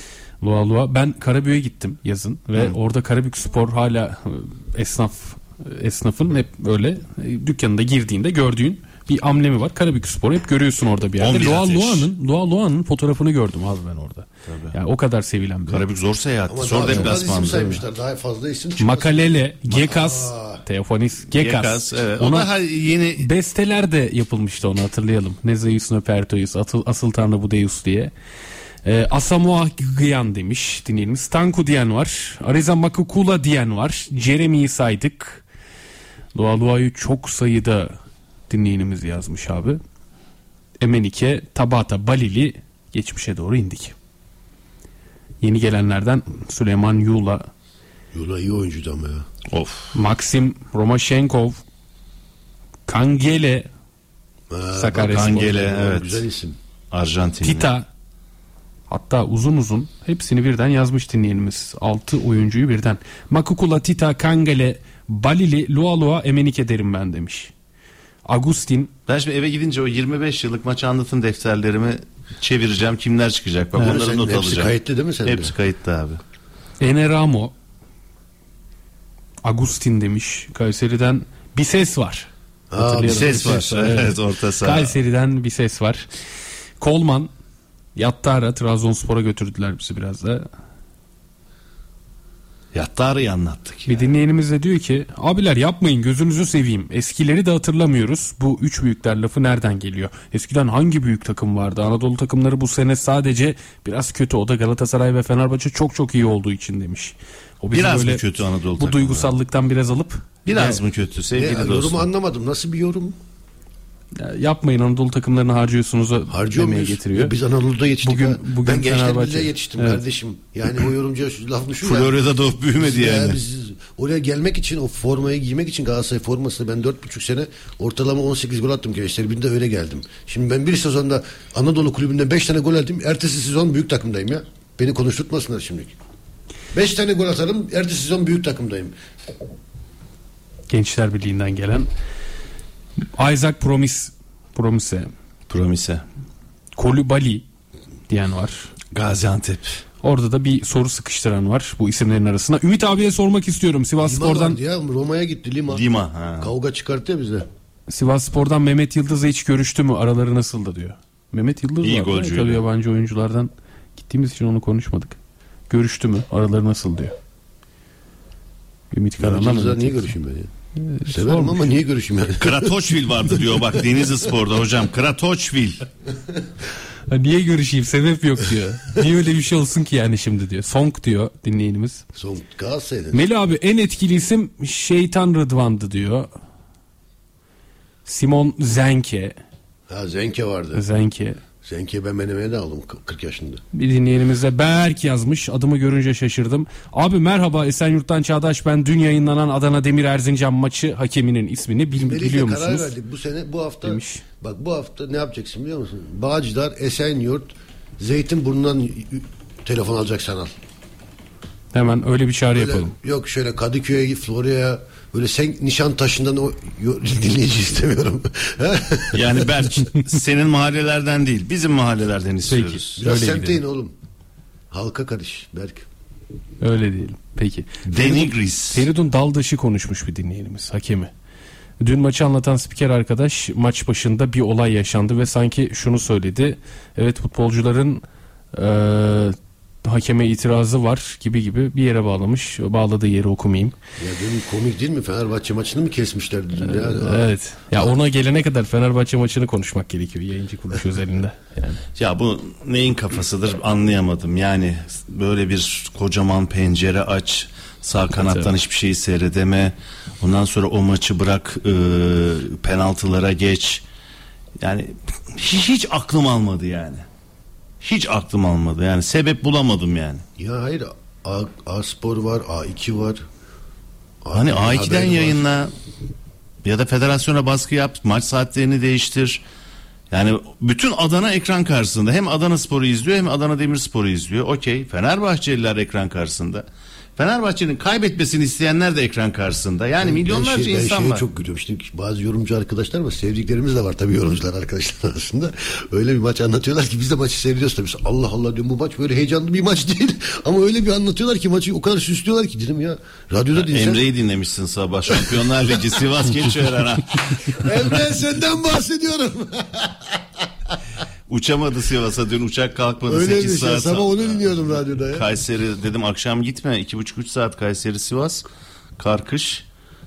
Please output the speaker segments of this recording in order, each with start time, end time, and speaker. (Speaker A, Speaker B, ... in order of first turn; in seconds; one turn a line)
Speaker A: 0.4-15.8
Speaker B: 11.2-12.1
Speaker B: 14.5-14.7
Speaker B: 15.7-17.8
Speaker C: 16.5-20.6
Speaker A: 16.9-17.1
Speaker A: 18.8-22.5
Speaker B: 21.4-23.3
Speaker A: 23.2-28.1
Speaker A: 28.9-35.4
Speaker A: 36.3-38.0
Speaker A: 38.5-39.8
Speaker A: 40.8-44.0
Speaker A: 45.4-47.5
Speaker C: 48.1-49.3
Speaker B: 49.5-50.0
Speaker A: 49.9-51.6
Speaker A: 52.9-53.7
Speaker C: 54.5-56.6
Speaker A: 54.8-55.5
Speaker B: 55.1-56.2
Speaker B: 56.9-57.7
Speaker A: 57.4-57.9
Speaker A: 58.9-67.5
Speaker A: 68.3-68.9
Speaker B: 69.1-74.7
Speaker C: 73.8-75.5
Speaker B: 75.2-76.2
Speaker A: 76.8-77.5
Speaker A: 79.4-86.1
Speaker C: 82.7-83.6
Speaker B: 83.1-84.9
Speaker A: 86.8-87.3
Speaker A: 88.0-90.5
Speaker B: 92.7-94.1
Speaker A: 93.9-108.2
Speaker B: 107.7-109.3
Speaker A: 108.8-110.8
Speaker B: 110.5-112.0
Speaker C: 111.3-113.2
Speaker A: 114.2-117.3
Speaker C: 116.3-122.2
Speaker A: 118.0-120.0
Speaker B: 121.8-123.4
Speaker C: 122.8-135.9
Speaker C: 136.7-138.9
Speaker A: 140.7-141.9
Speaker A: 143.2-145.1
Speaker B: 145.5-146.0
Speaker A: 146.8-147.4
Speaker A: 148.1-148.7
Speaker B: 148.9-149.8
Speaker A: 150.0-154.6
Speaker C: 154.0-155.8
Speaker B: 155.7-156.5
Speaker C: 156.4-157.5
Speaker A: 157.9-165.2
Speaker B: 161.8-162.6
Speaker A: 165.7-167.1
Speaker A: 168.9-170.1
Speaker C: 169.2-170.5
Speaker A: 170.8-171.6
Speaker C: 171.1-172.7
Speaker B: 172.4-175.8
Speaker A: 177.1-182.0
Speaker C: 182.2-183.2
Speaker A: 183.1-186.3
Speaker A: 188.1-189.4
Speaker C: 189.9-190.8
Speaker A: 190.8-191.4
Speaker C: 191.6-193.6
Speaker A: 193.7-202.9
Speaker C: 202.0-210.6
Speaker A: 203.8-204.2
Speaker A: 211.7-212.9
Speaker C: 212.5-219.5
Speaker B: 219.1-222.9
Speaker A: 222.5-223.6
Speaker C: 223.0-223.9
Speaker C: 224.7-225.9
Speaker A: 226.6-231.1
Speaker B: 227.9-228.9
Speaker A: 231.8-238.0
Speaker A: 238.5-243.8
Speaker C: 244.0-247.3
Speaker A: 246.6-251.8
Speaker B: 252.0-263.8
Speaker A: 258.1-258.5
Speaker B: 264.6-267.1
Speaker B: 267.8-270.2
Speaker C: 270.4-273.2
Speaker C: 274.2-275.4
Speaker B: 274.3-275.7
Speaker B: 276.6-279.4
Speaker B: 280.1-286.7
Speaker B: 287.2-291.2
Speaker C: 290.0-304.1
Speaker B: 303.6-307.7
Speaker C: 305.1-306.0
Speaker C: 307.5-310.4
Speaker B: 311.3-318.4
Speaker C: 313.1-315.3
Speaker B: 319.0-319.6